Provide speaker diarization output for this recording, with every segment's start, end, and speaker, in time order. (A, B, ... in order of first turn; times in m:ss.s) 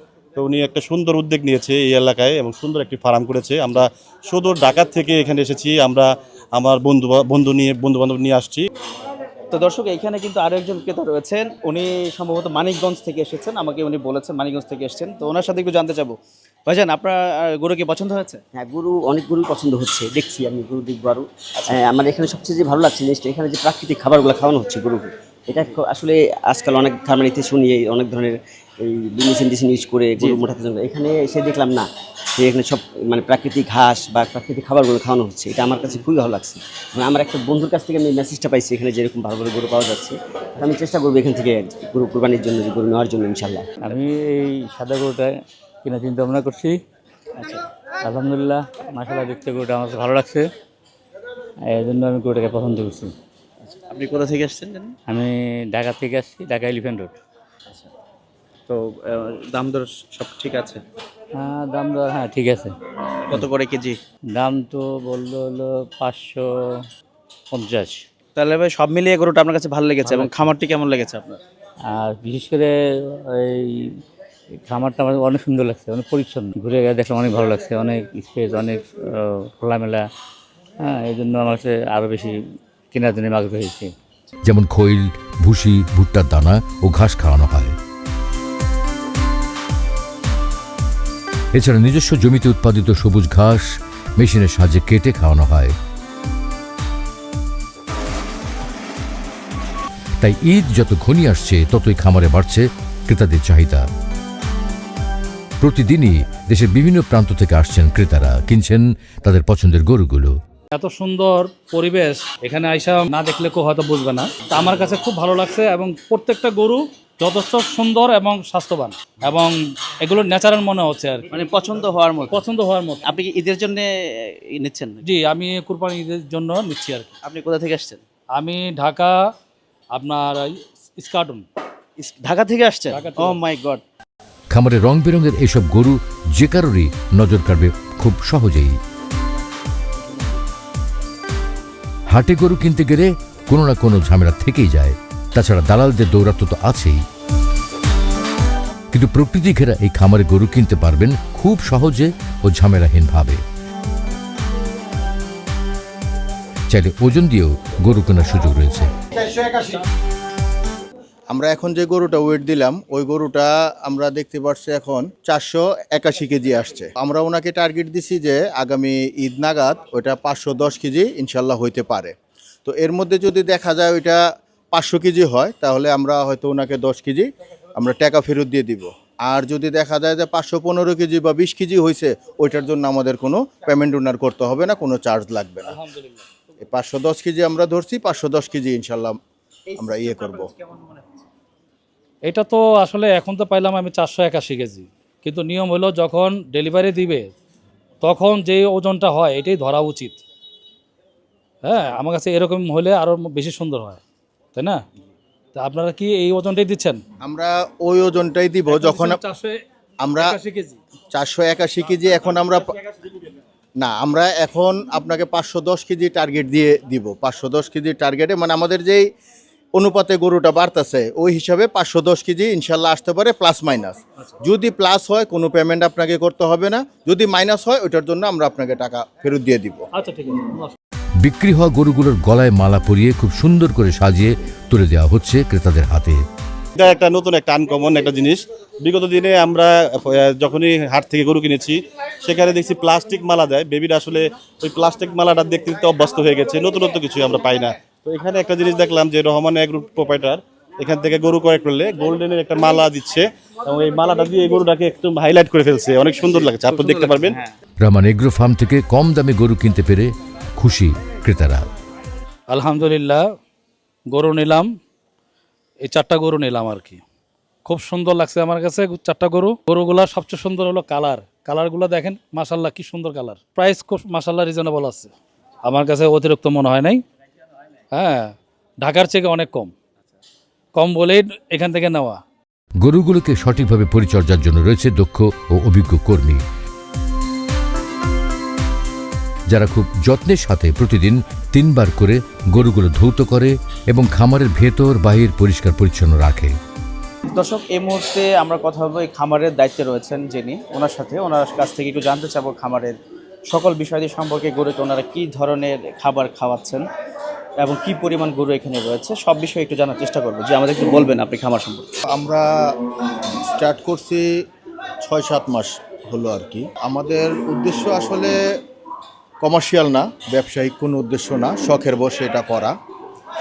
0:00.3-0:08.7 A
0:09.5-0:16.2 B
0:16.7-0:18.4 B
0:18.5-0:43.7 C
0:43.8-0:45.3 D
0:45.8-0:46.8 D
0:47.4-0:47.6 B
0:48.0-0:50.4 D
0:51.7-0:53.1 D
0:53.6-0:54.9 B
0:55.1-0:57.1 D
0:58.7-1:00.8 B
1:01.3-1:02.7 D
1:03.3-1:04.0 B
1:04.3-1:06.8 D
1:07.5-1:08.0 D
1:08.4-1:11.4 B
1:11.9-1:13.9 D
1:14.6-1:20.0 D
1:20.8-1:22.4 D
1:22.9-1:23.9 D
1:24.4-1:27.8 E
1:31.5-1:35.7 E
1:40.2-1:43.8 E
1:45.6-1:50.3 E
1:50.7-2:01.4 F
2:01.3-2:02.4 B
2:02.3-2:03.0 F
2:03.0-2:03.9 B
2:04.5-2:05.0 B
2:05.0-2:07.1 F
2:07.2-2:08.0 B
2:08.3-2:09.2 F
2:09.9-2:11.4 F
2:12.0-2:13.8 B
2:12.9-2:13.4 F
2:14.5-2:18.8 E
2:22.1-2:27.0 E
2:28.9-2:33.4 E
2:36.7-2:38.9 E
2:41.3-2:52.1 G
2:52.6-2:54.2 G
2:54.7-3:05.8 G
3:05.7-3:06.2 F
3:06.6-3:09.2 G
3:09.7-3:11.2 B
3:09.8-3:10.5 G
3:12.2-3:17.3 F
3:18.0-3:20.2 F
3:21.6-3:24.0 F
3:24.5-3:24.8 F
3:25.5-3:27.0 F
3:27.2-3:29.2 G
3:28.7-3:29.6 F
3:30.0-3:30.4 G
3:30.2-3:30.8 F
3:31.1-3:32.7 G
3:33.8-3:39.1 G
3:39.7-3:49.8 G
3:49.9-3:50.8 F
3:51.2-3:56.2 E
3:56.8-4:17.4 A
4:16.3-4:17.5 B
4:17.8-4:21.7 E
4:22.5-4:23.3 F
4:24.1-4:24.8 F
4:25.8-4:27.0 F
4:27.6-4:35.1 F
4:35.6-4:37.0 F
4:37.9-4:39.7 F
4:40.7-4:42.2 F
4:42.8-4:46.4 E
4:49.5-4:56.5 E
4:57.3-5:03.0 B
5:03.5-5:06.8 B
5:07.6-5:11.9 B
5:12.1-5:12.5 G
5:13.4-5:14.2 G
5:15.0-5:18.4 G
5:19.4-5:22.7 G